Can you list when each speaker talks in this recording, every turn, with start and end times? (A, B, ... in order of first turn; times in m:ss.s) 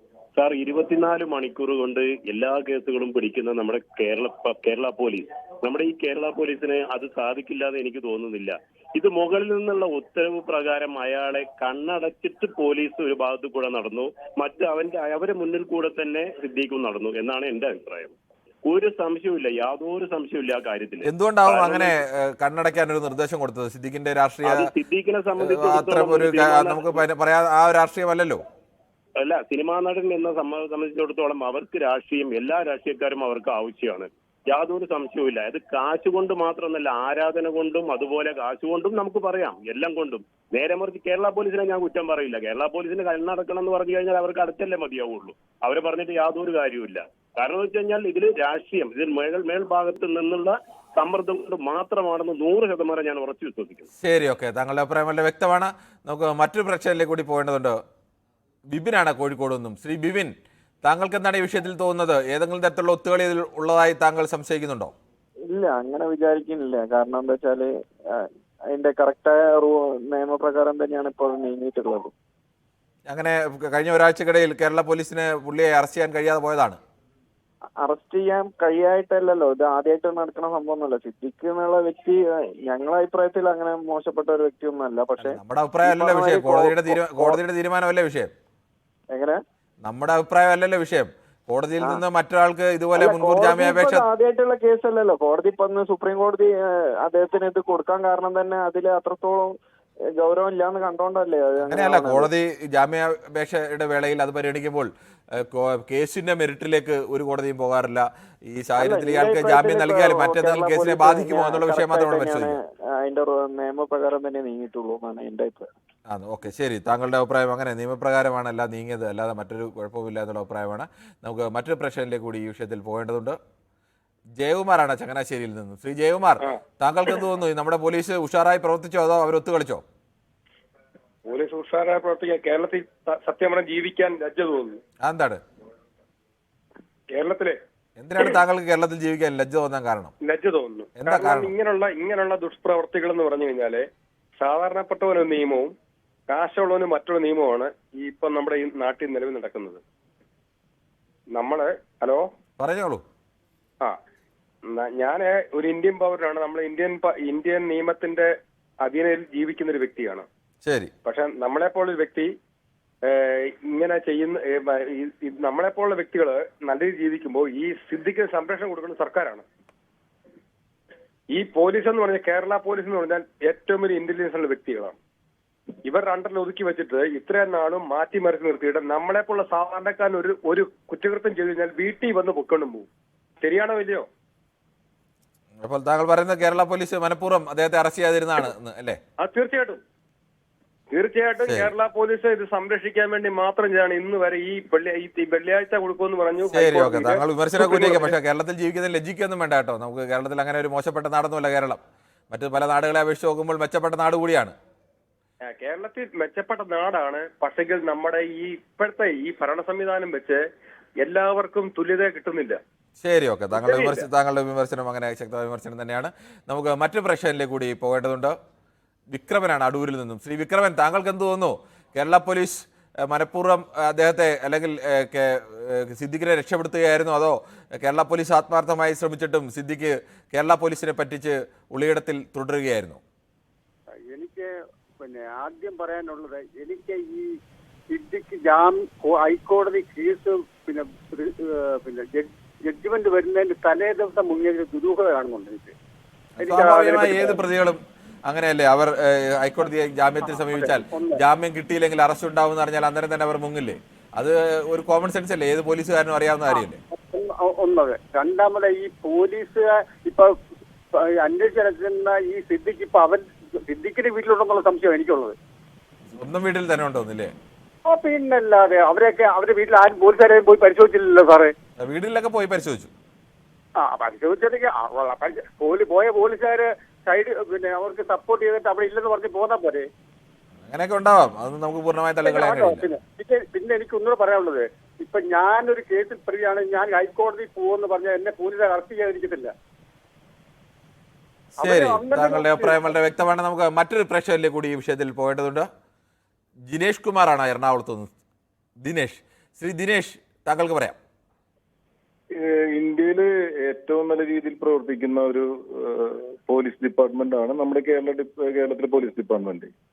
0:00.4-0:18.1 A
0:18.6-0:21.9 A
0:21.1-0:24.5 B
0:24.4-0:27.0 A
0:25.6-0:28.4 B
0:29.2-0:53.9 A
0:54.0-0:57.8 B
0:58.7-1:04.9 B
1:05.5-1:07.7 C
1:08.7-1:12.1 C
1:13.1-1:16.8 B
1:17.8-1:27.4 C
1:25.2-1:28.3 B
1:29.8-1:34.1 B
1:33.0-1:39.5 C
1:40.2-1:42.3 C
1:41.7-1:52.5 B
1:48.8-1:55.7 C
1:56.1-2:03.4 B
2:04.4-2:09.8 B
2:11.3-2:14.8 D
2:15.0-2:15.4 B
2:17.1-2:17.6 D
2:18.0-2:20.1 B
2:20.2-2:23.8 D
2:21.0-2:21.5 B
2:24.4-2:25.7 D
2:26.3-2:29.8 D
2:31.3-2:32.2 D
2:32.6-2:33.0 B
2:34.7-2:38.3 D
2:38.8-2:40.2 D
2:40.6-2:40.9 B
2:41.0-2:42.3 D
2:43.1-2:49.4 D
2:51.3-2:55.0 D
2:55.8-3:02.9 D
3:03.4-3:04.0 D
3:05.6-3:09.0 B
3:09.2-3:09.8 D
3:10.9-3:18.1 D
3:16.5-3:21.8 B
3:22.3-3:24.5 B
3:25.5-3:30.4 D
3:31.0-3:32.6 D
3:33.0-3:38.3 B
3:33.7-3:34.0 D
3:39.1-3:53.0 B
3:54.0-3:54.5 E
3:55.0-3:57.3 E
3:57.9-4:05.7 E
4:06.4-4:16.8 B
4:06.4-4:07.4 E
4:10.4-4:11.2 E
4:16.5-4:20.3 E
4:21.0-4:25.4 E
4:26.1-4:27.3 B
4:27.9-4:31.5 E
4:31.8-4:32.9 B
4:33.8-4:39.9 E
4:40.7-4:42.8 B
4:42.2-4:49.5 E
4:51.6-4:55.7 B
4:51.6-4:52.8 E
4:56.7-4:58.1 B
4:58.8-5:01.0 B
5:02.4-5:09.7 F